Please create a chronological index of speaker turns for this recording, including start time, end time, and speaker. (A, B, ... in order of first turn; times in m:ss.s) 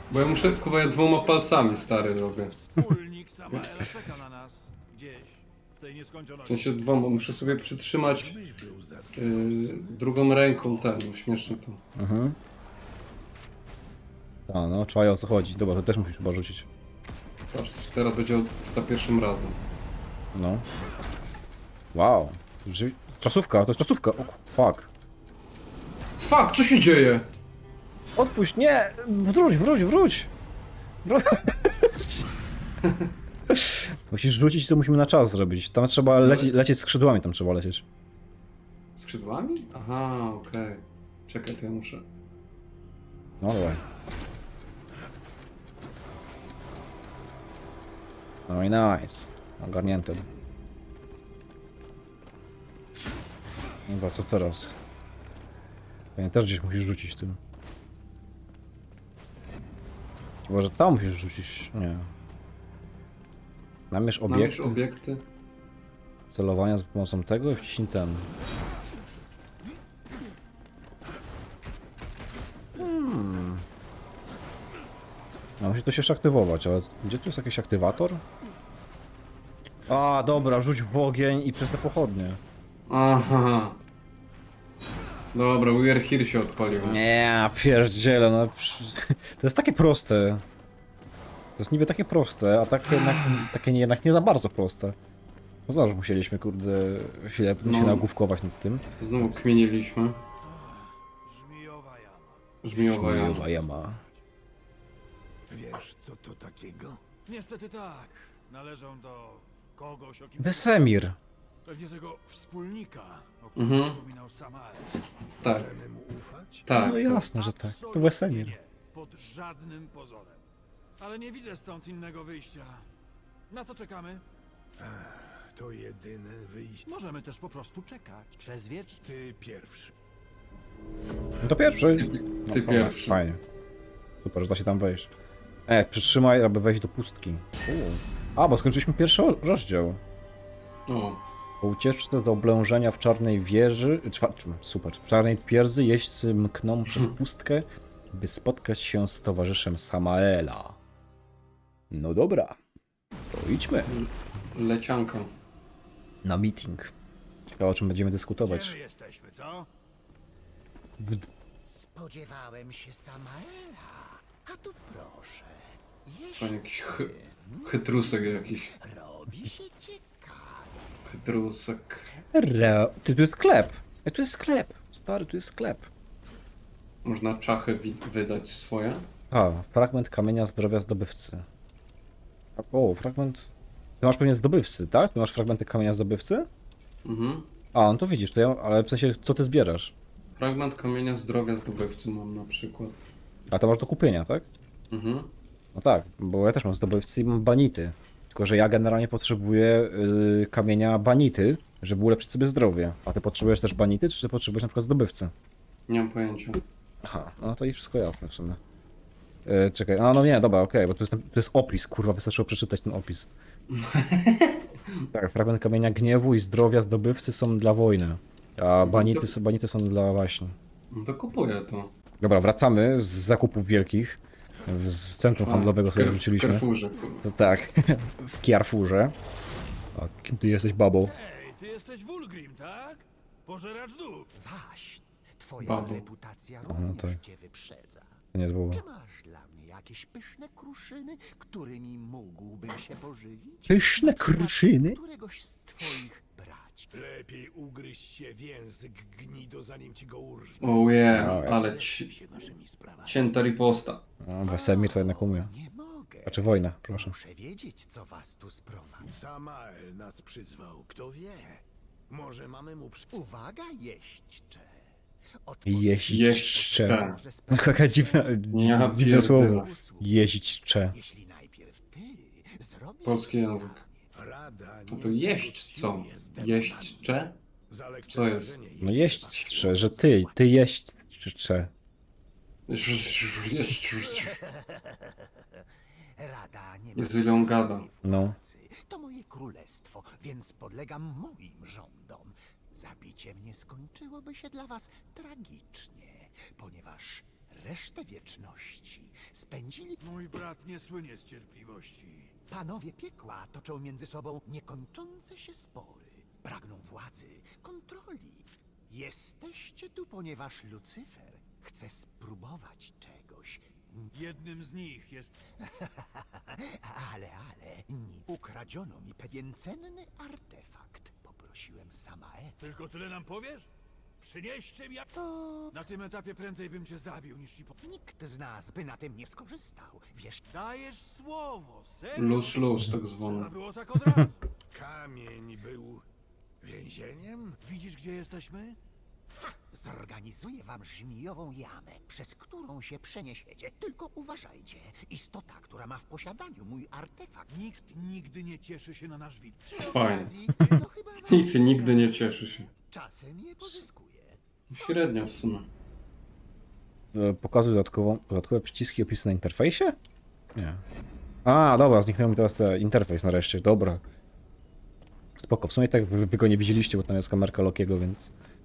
0:00.1-0:02.5 A
0:00.6-0:07.3 B
0:06.4-0:08.4 A
0:08.0-0:10.8 C
0:09.1-0:11.8 A
0:12.0-0:12.4 D
0:14.5-0:16.7 D
0:17.5-0:19.6 A
0:20.3-0:20.6 D
0:21.9-0:24.9 D
0:26.2-0:27.3 A
0:28.2-0:30.3 D
0:31.0-0:32.2 D
0:32.8-0:33.1 A
0:33.5-0:37.8 D
0:36.1-0:36.5 A
0:39.0-0:42.0 A
0:43.4-0:43.8 D
0:48.5-0:50.3 D
0:53.9-0:54.8 D
0:56.2-0:57.4 D
1:00.5-1:02.1 D
1:03.9-1:04.8 D
1:04.2-1:05.2 A
1:06.3-1:08.3 D
1:12.7-1:13.6 D
1:15.6-1:18.2 D
1:19.9-1:22.4 D
1:22.9-1:23.8 A
1:25.3-1:27.0 A
1:26.8-1:30.4 D
1:31.6-1:35.0 D
1:35.7-1:39.4 D
1:37.6-1:38.0 A
1:39.0-1:40.2 A
1:40.4-1:42.5 B
1:42.6-1:43.4 A
1:42.7-1:44.0 D
1:43.0-1:44.0 B
1:45.5-1:47.0 C
1:47.2-1:50.8 B
1:50.4-1:51.2 D
1:51.6-1:55.0 B
1:53.6-1:54.0 A
1:55.4-1:56.7 C
1:55.4-1:55.7 A
1:56.6-1:57.2 A
1:56.8-1:58.6 D
1:56.9-2:00.4 B
2:01.0-2:02.8 B
2:03.5-2:04.2 B
2:04.8-2:06.9 C
2:06.8-2:09.0 B
2:09.0-2:09.9 C
2:11.4-2:13.4 D
2:11.9-2:13.2 A
2:14.2-2:15.1 D
2:15.7-2:20.0 D
2:20.9-2:21.2 A
2:21.6-2:30.8 D
2:31.9-2:32.6 D
2:33.3-2:33.9 D
2:33.9-2:35.3 A
2:36.2-2:36.9 D
2:37.6-2:38.8 D
2:38.4-2:39.7 B
2:41.0-2:41.3 D
2:41.6-2:51.0 E
2:46.4-2:47.1 A
2:47.6-2:48.7 A
2:51.0-2:52.1 A
2:52.3-2:55.9 D
2:57.0-2:59.0 A
2:59.3-3:01.4 D
3:02.6-3:03.5 D
3:04.0-3:06.5 D
3:07.0-3:07.5 A
3:07.7-3:09.9 D
3:10.4-3:13.0 A
3:13.5-3:14.5 D
3:14.9-3:15.3 A
3:15.7-3:25.3 D
3:25.9-3:26.6 A
3:27.0-3:28.6 D
3:29.4-3:33.3 D
3:33.7-3:35.1 A
3:35.1-3:40.6 D
3:38.8-3:39.3 A
3:40.9-3:41.9 A
3:42.2-3:46.6 D
3:45.4-3:47.2 A
3:47.2-3:49.1 D
3:49.9-3:51.1 D
3:51.0-3:54.3 B
3:54.4-4:07.0 E
3:55.6-3:56.0 A
3:56.6-3:57.2 D
3:58.3-3:58.8 D
4:03.7-4:05.0 D
4:06.9-4:13.3 C
4:10.6-4:12.1 A
4:11.1-4:11.6 D
4:13.0-4:14.0 A
4:14.2-4:15.5 D
4:14.4-4:19.1 E
4:16.2-4:17.2 D
4:19.1-4:23.1 C
4:23.1-4:24.9 E
4:25.4-4:30.1 E
4:25.6-4:30.9 D
4:26.1-4:27.2 A
4:28.5-4:29.7 A
4:30.9-4:34.1 E
4:33.0-4:33.8 A
4:34.1-4:37.1 C
4:34.9-4:37.4 A
4:37.7-4:39.9 C
4:38.1-4:38.6 A
4:38.8-4:41.7 D
4:39.0-4:40.6 E
4:42.7-4:44.4 A
4:44.1-4:45.6 E
4:46.2-5:00.0 E
4:46.9-4:47.9 A
4:48.0-4:48.4 D
5:00.0-5:02.3 B
5:02.5-5:14.1 E
5:14.1-5:15.4 B
5:15.6-5:22.6 E
5:22.6-5:23.7 B
5:24.2-5:25.1 B
5:25.1-5:25.8 E
5:25.7-5:27.7 B
5:27.8-5:30.4 E
5:30.5-5:34.4 B
5:32.2-5:33.5 A
5:34.0-5:34.3 D
5:34.7-5:36.0 C
5:36.6-5:37.6 C
5:37.6-5:38.8 B
5:39.5-5:47.5 E
5:47.5-5:49.8 B
5:49.6-5:52.2 E
5:49.8-5:50.3 A
5:51.2-5:52.7 A
5:52.9-5:55.0 E
5:54.7-5:55.7 A
5:57.1-6:00.0 D
6:00.5-6:00.8 D
6:01.4-6:04.0 D
6:05.4-6:08.3 D